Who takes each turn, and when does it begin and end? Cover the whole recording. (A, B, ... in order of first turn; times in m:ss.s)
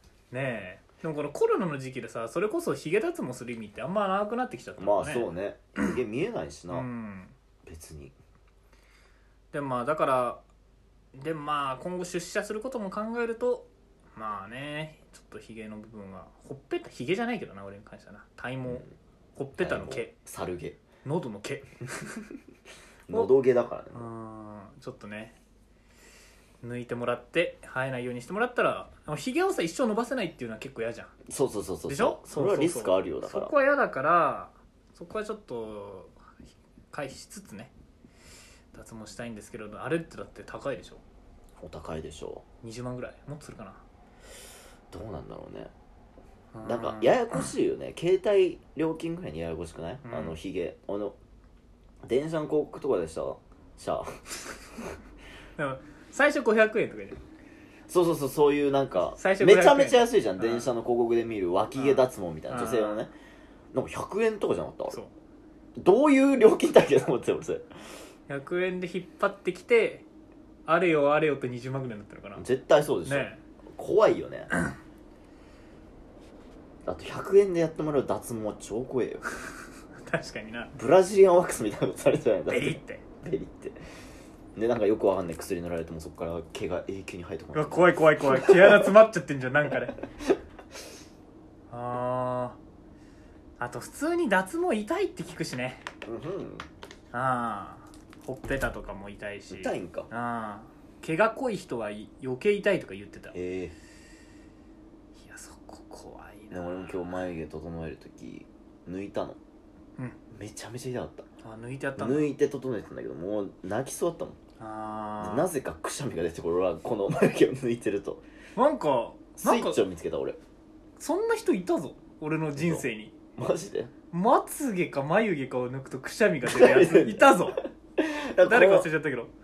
0:00.3-0:05.3 A
0:04.8-0:06.9 B
0:06.7-0:07.3 A
0:07.6-0:08.1 B
0:09.5-0:10.4 A
0:11.1-0:18.8 A
0:19.4-0:20.1 A
0:19.6-0:20.8 B
0:21.0-0:21.7 A
0:23.1-0:24.1 B
0:23.9-0:25.4 A
0:26.6-0:31.1 A
0:31.3-0:33.5 B
0:31.9-0:36.3 A
0:36.9-0:37.7 A
0:38.7-0:41.0 A
0:41.6-0:42.4 B
0:42.6-0:43.8 A
0:44.9-0:45.7 B
0:46.5-0:47.2 A
0:46.6-0:51.2 B
0:50.0-0:50.3 A
0:52.0-0:54.2 B
0:55.6-0:57.2 A
0:57.9-1:03.1 B
0:59.2-1:00.7 A
1:01.7-1:03.0 A
1:03.7-1:05.0 B
1:05.8-1:07.7 B
1:08.3-1:10.0 A
1:10.7-1:12.4 A
1:12.4-1:14.5 B
1:13.0-1:13.4 A
1:16.8-1:19.2 B
1:20.0-1:20.7 A
1:20.7-1:23.8 B
1:22.5-1:23.1 A
1:24.5-1:28.9 B
1:27.5-1:30.0 A
1:31.7-1:32.6 A
1:33.6-1:35.8 A
1:36.0-1:36.6 B
1:37.1-1:43.4 A
1:39.5-1:40.1 B
1:43.3-1:43.7 B
1:45.2-1:47.2 A
1:46.5-1:49.4 B
1:50.3-1:51.2 B
1:51.4-1:52.3 A
1:52.0-1:54.4 B
1:54.6-1:55.5 A
1:55.2-1:58.2 B
1:58.6-1:59.8 A
1:59.4-2:00.4 B
2:01.0-2:03.2 A
2:02.6-2:02.8 B
2:03.4-2:03.9 B
2:04.1-2:07.6 A
2:06.4-2:08.9 B
2:08.4-2:09.3 A